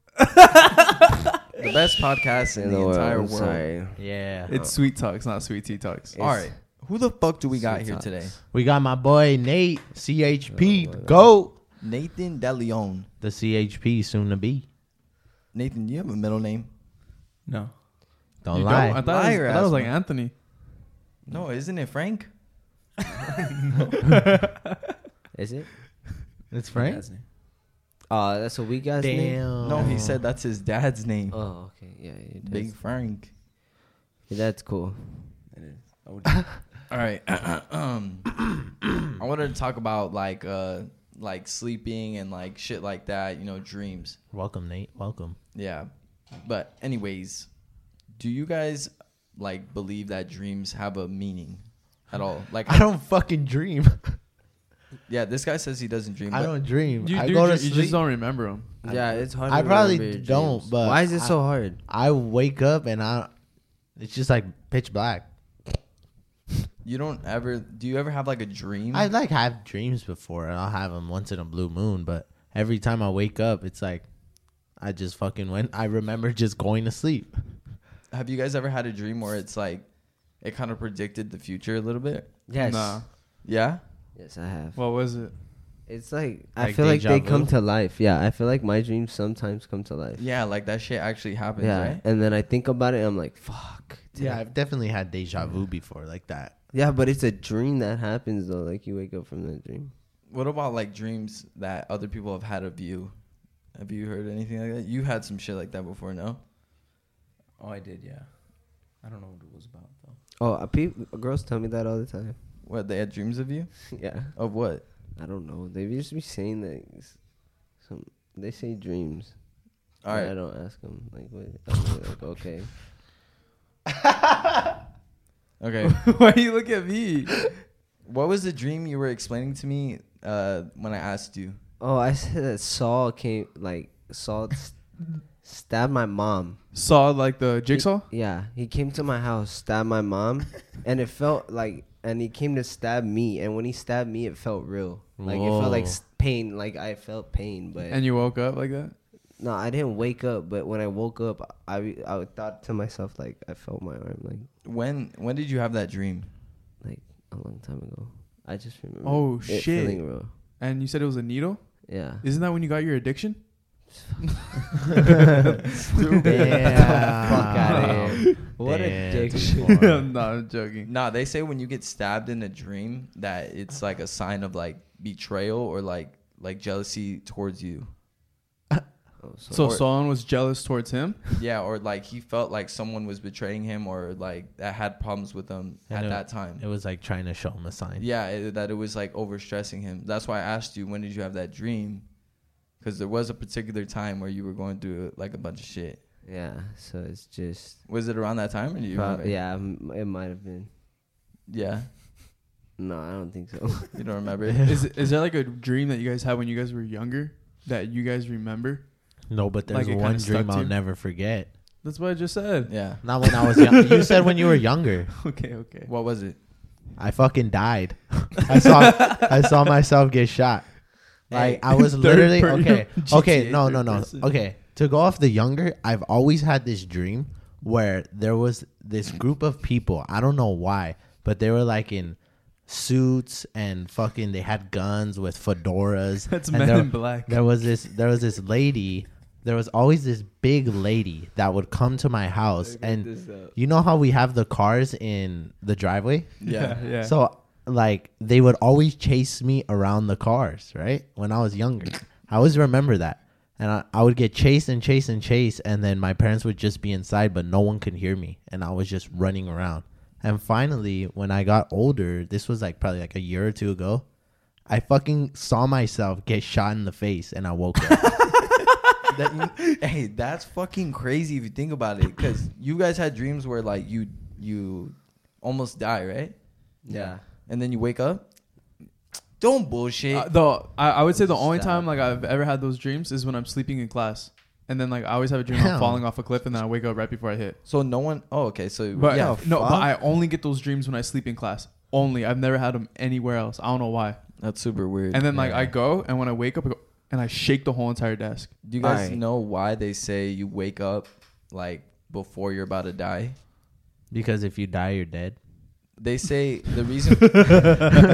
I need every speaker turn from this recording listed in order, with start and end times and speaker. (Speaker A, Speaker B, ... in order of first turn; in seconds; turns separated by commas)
Speaker A: 1.6-3.6, Speaker B: 2.4-4.8, Speaker C: 4.0-4.5, Speaker D: 4.5-6.2, Speaker B: 6.1-6.6, Speaker A: 6.2-8.4, Speaker B: 7.5-8.3, Speaker C: 8.5-11.6, Speaker B: 10.5-11.3, Speaker A: 11.8-13.1, Speaker C: 13.2-14.7, Speaker A: 15.5-16.7, Speaker E: 17.4-17.7, Speaker C: 18.4-19.0, Speaker D: 18.5-20.3, Speaker A: 18.8-19.9, Speaker A: 21.2-22.3, Speaker D: 24.1-24.5, Speaker B: 25.3-25.7, Speaker C: 26.5-27.0, Speaker E: 26.7-27.2, Speaker B: 28.1-29.9, Speaker C: 29.0-30.2, Speaker A: 29.6-31.4, Speaker B: 31.3-32.8, Speaker A: 32.4-33.3, Speaker B: 34.3-35.4, Speaker E: 35.5-36.5, Speaker A: 36.9-38.4, Speaker A: 39.1-44.2, Speaker C: 44.3-45.4, Speaker A: 45.5-47.5, Speaker A: 48.1-52.8, Speaker C: 52.6-54.2, Speaker A: 55.1-56.6, Speaker C: 56.3-58.0, Speaker D: 57.0-58.7, Speaker B: 58.8-61.8, Speaker C: 58.8-63.3, Speaker C: 64.0-65.3, Speaker A: 66.8-69.1, Speaker C: 68.9-74.1, Speaker C: 74.8-77.3, Speaker A: 78.1-82.4, Speaker B: 82.5-83.1, Speaker D: 82.6-83.1, Speaker A: 83.4-83.8, Speaker B: 84.1-84.8, Speaker D: 84.7-85.3, Speaker B: 85.9-90.3, Speaker C: 86.6-87.5, Speaker A: 90.2-92.0, Speaker B: 91.6-94.4, Speaker C: 94.1-96.5, Speaker B: 96.7-99.9, Speaker A: 100.3-103.2, Speaker A: 103.7-106.4, Speaker E: 107.6-110.2, Speaker B: 110.4-112.4, Speaker A: 112.6-114.8, Speaker B: 113.9-122.7, Speaker A: 120.0-120.3, Speaker A: 125.6-126.1, Speaker D: 125.8-127.5, Speaker A: 128.0-131.6, Speaker B: 131.8-136.6, Speaker D: 136.7-138.1, Speaker B: 137.7-148.1, Speaker C: 145.2-146.0, Speaker D: 147.9-148.9, Speaker B: 149.3-154.5, Speaker A: 154.6-156.3, Speaker B: 156.8-160.3, Speaker D: 159.0-165.0, Speaker B: 161.8-162.2, Speaker A: 165.9-167.4, Speaker D: 166.1-166.4, Speaker B: 166.2-170.0, Speaker C: 166.3-170.1, Speaker D: 167.4-168.2, Speaker D: 169.6-170.9, Speaker A: 170.8-177.9, Speaker B: 179.2-179.8, Speaker D: 179.5-181.4, Speaker A: 179.6-179.8, Speaker A: 181.4-186.6, Speaker C: 185.9-188.1, Speaker A: 188.0-192.1, Speaker A: 192.8-196.0, Speaker B: 196.2-197.9, Speaker A: 197.9-199.3, Speaker B: 198.9-200.7, Speaker A: 201.5-201.9, Speaker B: 202.8-203.9, Speaker A: 203.9-204.7, Speaker C: 204.5-204.8, Speaker D: 204.6-210.7, Speaker C: 209.3-211.5, Speaker D: 211.8-215.9, Speaker A: 212.7-213.0, Speaker C: 213.0-215.1, Speaker A: 215.9-216.4, Speaker C: 217.0-264.1, Speaker D: 218.6-219.5, Speaker D: 221.4-224.4, Speaker D: 236.3-237.8, Speaker B: 242.6-243.5, Speaker A: 246.4-246.8, Speaker D: 246.4-247.2, Speaker C: 264.7-268.3, Speaker D: 267.9-268.7, Speaker A: 269.1-276.4, Speaker B: 276.8-277.2, Speaker A: 277.4-278.3, Speaker A: 279.4-280.3, Speaker D: 280.1-287.6, Speaker B: 281.1-281.9, Speaker C: 285.5-286.1, Speaker A: 287.6-289.4, Speaker D: 288.9-294.4, Speaker C: 289.1-289.9, Speaker A: 294.4-295.2, Speaker D: 295.1-298.6, Speaker C: 295.3-295.7, Speaker A: 298.6-303.4, Speaker B: 298.8-299.2, Speaker C: 304.1-305.4, Speaker A: 306.0-307.9, Speaker D: 307.4-307.7